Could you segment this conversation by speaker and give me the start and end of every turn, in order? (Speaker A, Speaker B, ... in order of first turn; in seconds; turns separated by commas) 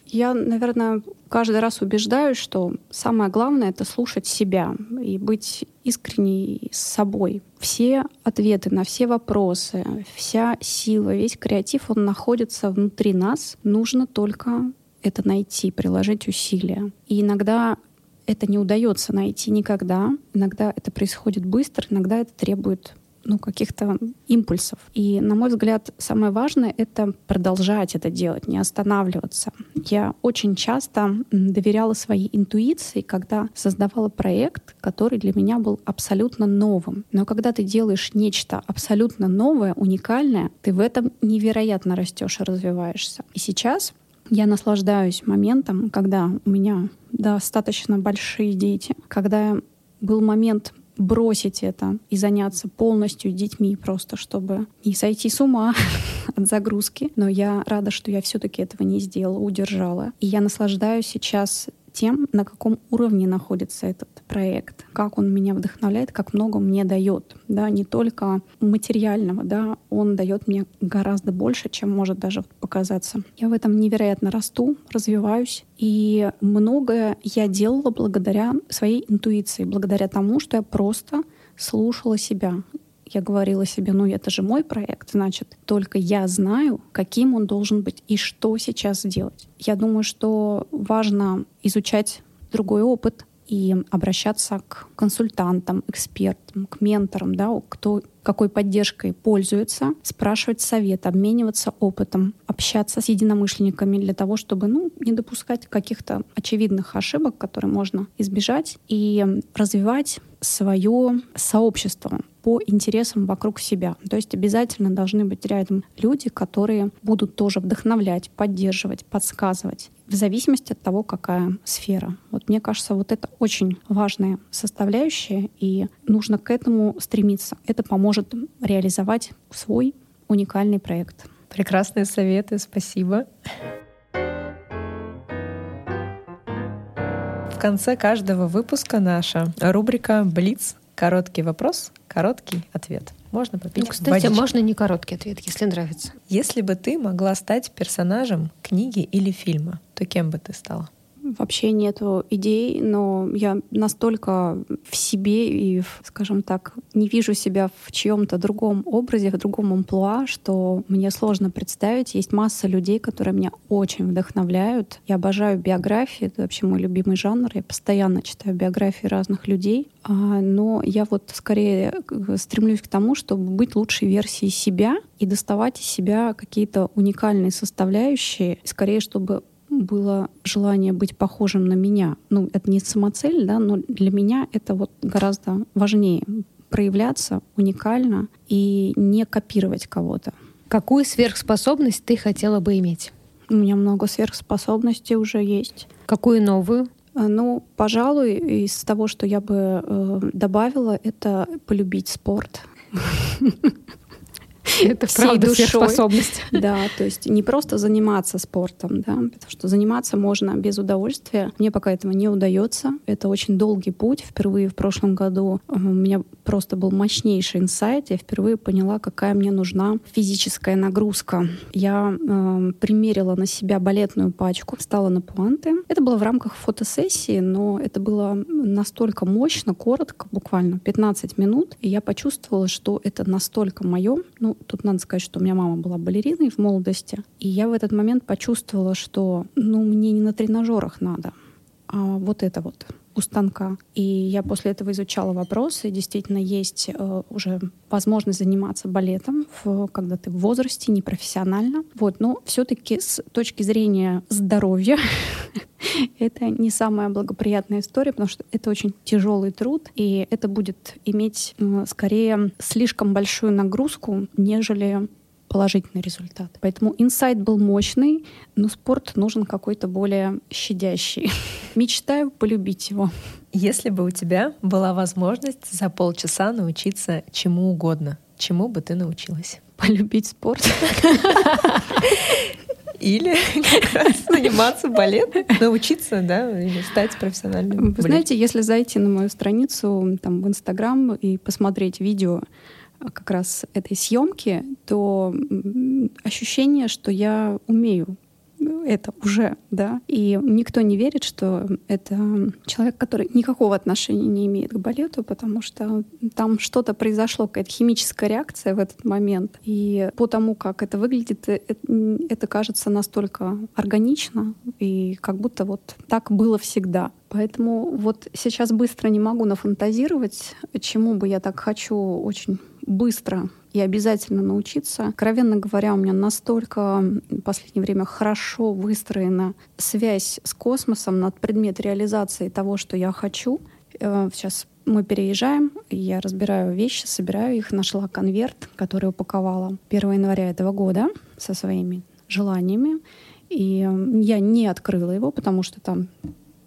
Speaker A: 0.1-131.3, Speaker B: 131.5-133.3, Speaker B: 137.5-144.5, Speaker C: 143.8-146.2, Speaker B: 146.3-150.9, Speaker A: 151.2-190.3, Speaker C: 190.7-193.1, Speaker A: 193.5-195.9, Speaker C: 196.1-196.9, Speaker A: 197.2-203.8, Speaker A: 204.7-241.3, Speaker C: 204.8-206.6, Speaker A: 241.9-273.1, Speaker B: 273.5-279.6, Speaker A: 279.8-281.9, Speaker B: 282.0-288.2, Speaker A: 287.8-292.4, Speaker A: 293.0-346.1